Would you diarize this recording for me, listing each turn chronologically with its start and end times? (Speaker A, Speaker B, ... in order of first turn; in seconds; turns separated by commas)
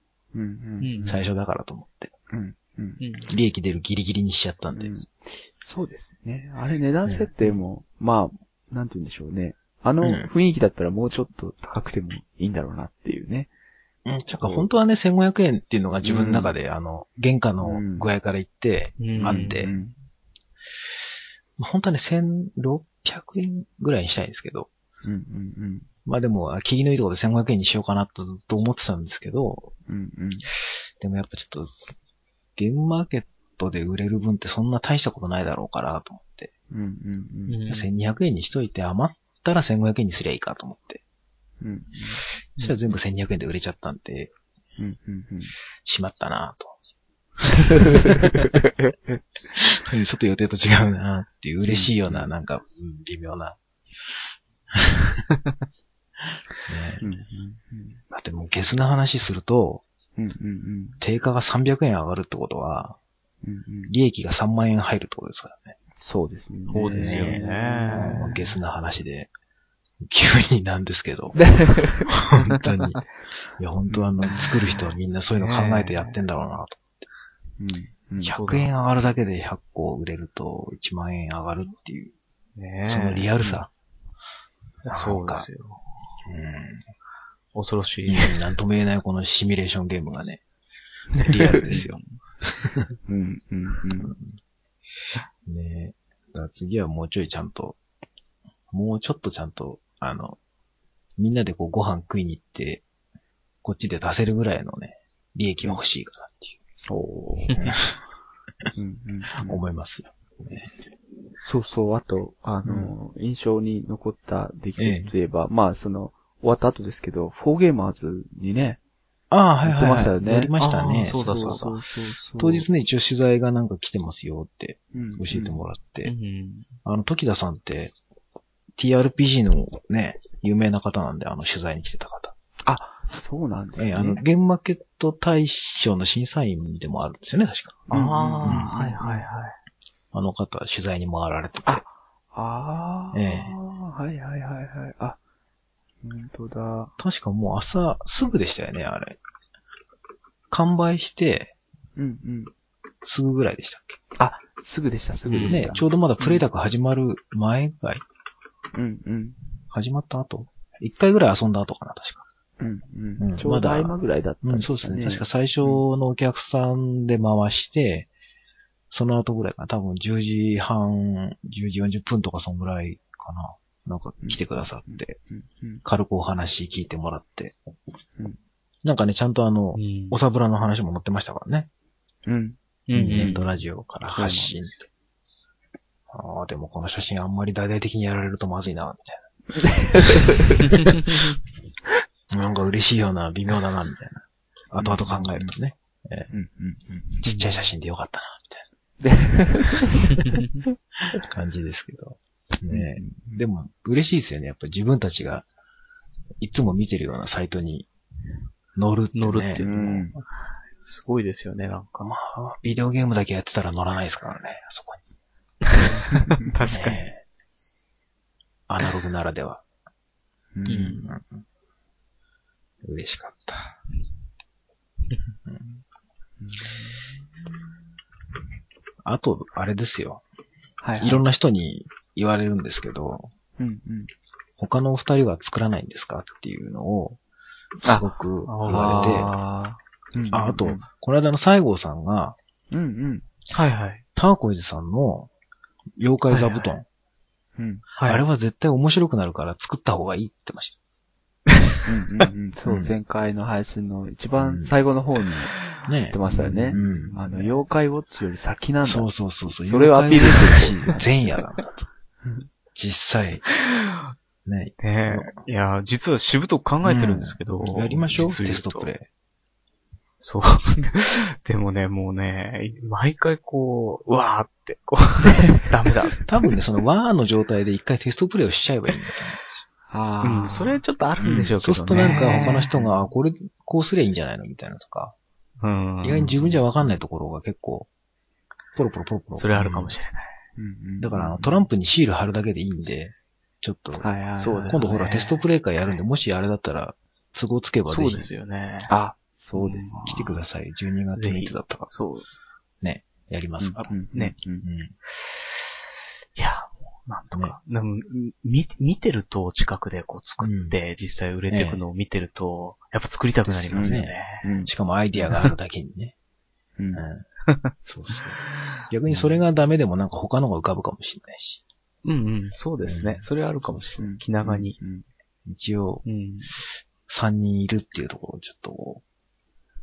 Speaker A: 0.3-1.2, Speaker B: 0.8-1.2, Speaker C: 1.1-2.1, Speaker A: 2.3-3.0, Speaker B: 3.0-3.3, Speaker C: 3.3-4.9, Speaker A: 4.7-13.5, Speaker C: 10.0-10.3, Speaker C: 14.1-19.7, Speaker A: 14.3-14.7, Speaker A: 16.1-16.5, Speaker A: 17.6-18.1, Speaker B: 19.0-19.7, Speaker A: 19.1-19.9, Speaker C: 21.6-24.7, Speaker A: 25.0-25.9, Speaker C: 26.1-29.7, Speaker A: 29.9-30.5, Speaker C: 31.0-31.7, Speaker C: 32.6-36.5, Speaker A: 36.7-37.6, Speaker B: 37.5-38.0, Speaker C: 37.7-41.0, Speaker A: 41.6-42.2, Speaker C: 42.6-44.3, Speaker A: 44.8-45.5, Speaker C: 45.9-46.8, Speaker A: 47.5-49.2, Speaker C: 49.5-53.6, Speaker A: 51.7-52.3, Speaker C: 54.7-55.2, Speaker C: 56.7-57.1, Speaker A: 57.0-58.0, Speaker C: 58.1-59.8, Speaker A: 60.2-61.0, Speaker C: 61.0-63.0, Speaker A: 63.4-63.9, Speaker C: 63.9-65.8, Speaker A: 66.0-68.5, Speaker B: 66.7-68.3, Speaker C: 66.8-69.3, Speaker C: 70.0-73.0, Speaker A: 71.4-72.0, Speaker C: 73.6-76.8, Speaker A: 73.9-74.5, Speaker B: 74.5-76.1, Speaker A: 77.6-78.4, Speaker C: 78.2-82.1, Speaker B: 78.3-78.7, Speaker B: 82.6-83.6, Speaker C: 82.9-83.7, Speaker B: 84.8-85.9, Speaker C: 84.9-85.5, Speaker C: 86.2-86.9, Speaker B: 87.5-88.4, Speaker C: 88.1-90.4, Speaker C: 91.2-92.9, Speaker B: 91.3-92.2, Speaker A: 93.1-94.2, Speaker C: 94.1-94.4, Speaker C: 95.4-97.8, Speaker C: 98.7-100.4, Speaker C: 101.2-102.8, Speaker C: 103.6-106.5, Speaker A: 106.9-107.7, Speaker C: 107.6-107.9, Speaker A: 108.8-109.6, Speaker C: 109.4-110.7, Speaker A: 111.4-118.8, Speaker C: 112.7-112.9, Speaker C: 114.8-115.1, Speaker C: 119.3-121.6, Speaker A: 119.6-120.5, Speaker B: 120.6-121.8, Speaker A: 121.1-122.7, Speaker C: 122.4-126.1, Speaker A: 124.9-125.6, Speaker B: 126.0-126.7, Speaker C: 126.8-127.9, Speaker C: 128.8-132.3, Speaker A: 132.7-134.2, Speaker C: 133.8-137.9, Speaker A: 137.9-139.3, Speaker B: 137.9-139.6, Speaker C: 138.4-138.7, Speaker C: 140.1-141.8, Speaker A: 141.7-145.2, Speaker C: 143.1-143.5, Speaker A: 146.0-146.9, Speaker C: 147.0-149.2, Speaker C: 150.5-151.5, Speaker A: 152.0-152.5, Speaker C: 153.1-154.0, Speaker A: 154.2-156.4, Speaker B: 155.3-155.7, Speaker C: 155.5-158.0, Speaker A: 158.7-159.4, Speaker C: 159.7-162.2, Speaker A: 162.6-165.8, Speaker C: 163.2-168.1, Speaker C: 168.9-175.2, Speaker A: 174.2-175.8, Speaker C: 175.8-177.6, Speaker C: 178.8-181.7, Speaker B: 179.8-180.2, Speaker A: 182.3-182.6, Speaker B: 182.9-183.5, Speaker C: 182.9-184.8, Speaker B: 184.0-184.8, Speaker C: 186.1-189.3, Speaker A: 189.6-190.7, Speaker C: 189.8-190.9, Speaker C: 192.3-196.3, Speaker A: 194.8-195.5, Speaker A: 196.3-197.2, Speaker C: 197.2-198.7, Speaker B: 197.3-197.7, Speaker A: 199.0-200.4, Speaker C: 201.2-205.5, Speaker A: 202.7-203.4, Speaker C: 206.4-207.9, Speaker C: 208.8-209.7, Speaker B: 209.2-210.2, Speaker A: 209.6-210.2, Speaker B: 210.8-212.1, Speaker C: 212.0-215.0, Speaker B: 215.7-217.0, Speaker A: 216.1-216.5, Speaker C: 216.7-217.2, Speaker C: 218.7-219.6, Speaker A: 220.6-221.1, Speaker B: 220.7-221.1, Speaker C: 221.0-221.4, Speaker C: 222.8-223.7, Speaker A: 226.4-227.0, Speaker C: 229.0-230.2, Speaker A: 230.8-231.2, Speaker C: 231.0-233.3, Speaker A: 233.6-234.1, Speaker C: 234.6-237.2, Speaker C: 237.8-239.3, Speaker B: 238.5-239.3, Speaker A: 238.7-240.9, Speaker C: 240.3-242.4, Speaker A: 242.7-243.3, Speaker B: 243.5-244.0, Speaker C: 244.2-245.3, Speaker C: 246.0-246.9, Speaker B: 246.3-246.7, Speaker A: 247.6-247.9, Speaker B: 248.0-248.2, Speaker C: 248.0-250.8, Speaker A: 251.9-261.3, Speaker C: 252.7-252.9, Speaker C: 254.4-254.7, Speaker C: 255.9-257.4, Speaker B: 256.3-256.9, Speaker C: 258.9-261.9, Speaker C: 262.8-263.5, Speaker B: 263.5-264.1, Speaker C: 264.5-265.4, Speaker B: 264.8-268.9, Speaker A: 266.9-267.4, Speaker C: 267.6-269.1, Speaker B: 270.2-276.3, Speaker C: 276.3-279.6, Speaker A: 279.9-280.8, Speaker B: 280.2-283.0, Speaker C: 281.2-285.1, Speaker B: 285.6-286.6, Speaker C: 286.0-287.9, Speaker C: 288.8-289.9, Speaker B: 289.4-290.4, Speaker A: 290.6-291.6, Speaker C: 291.0-294.1, Speaker A: 294.0-294.8, Speaker B: 294.4-295.9, Speaker C: 294.7-298.3, Speaker B: 297.9-298.9, Speaker A: 298.9-300.2, Speaker B: 299.6-300.4, Speaker C: 300.1-301.9, Speaker B: 301.1-302.3, Speaker C: 302.8-303.9, Speaker A: 303.6-304.7, Speaker C: 304.6-304.9, Speaker B: 306.4-314.5, Speaker C: 310.4-310.8, Speaker C: 311.5-311.8, Speaker C: 313.5-316.1, Speaker A: 313.7-314.7, Speaker B: 315.2-315.5, Speaker A: 316.8-317.1, Speaker C: 316.9-317.2, Speaker B: 317.5-318.3, Speaker C: 317.9-321.6, Speaker B: 322.0-324.8, Speaker C: 322.8-323.9, Speaker A: 324.8-325.1, Speaker C: 325.5-326.0, Speaker B: 326.1-326.5, Speaker C: 327.1-329.0